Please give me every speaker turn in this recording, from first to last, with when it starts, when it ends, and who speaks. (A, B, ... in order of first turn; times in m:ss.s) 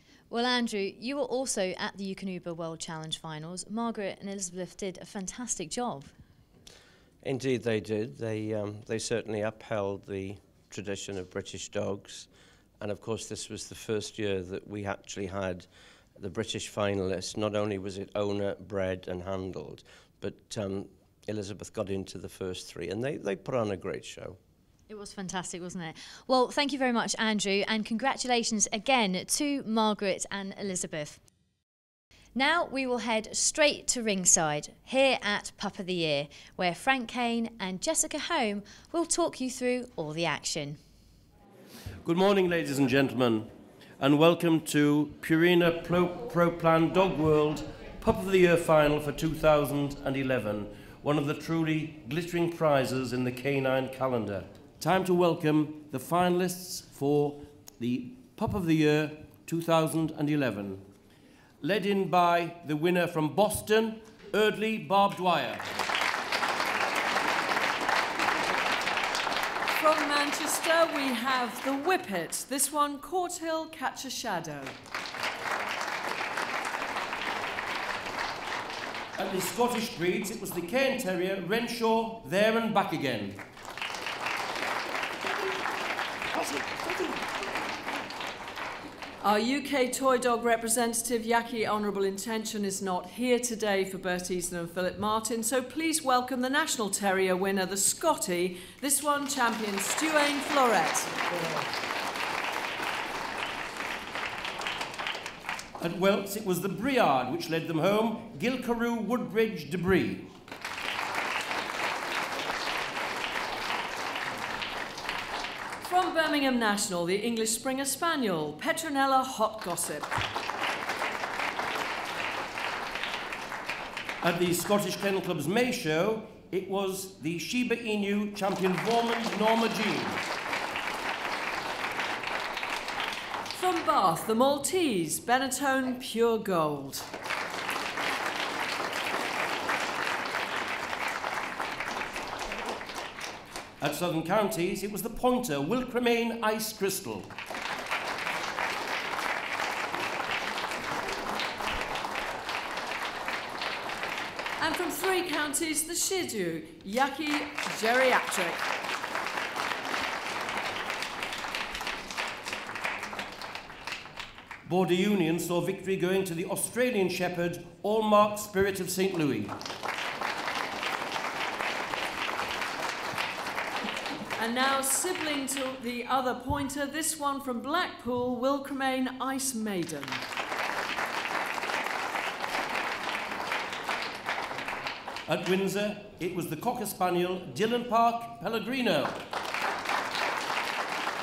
0:00.3-0:06.1 A
0:07.2-0:12.3 B
0:12.8-0:24.4 B
0:24.9-0:31.2 A
0:32.4-0:40.8 A
0:42.0-1:00.8 C
1:01.6-1:05.7 C
1:09.8-1:14.8 D
1:19.2-1:23.4 C
1:29.2-1:41.2 D
1:45.8-1:50.3 C
1:55.8-2:00.2 D
2:04.2-2:10.2 C
2:13.5-2:17.1 D
2:23.8-2:27.3 C
2:34.6-2:38.6 D
2:44.6-2:49.6 C
2:54.4-3:00.2 D
3:05.3-3:09.2 C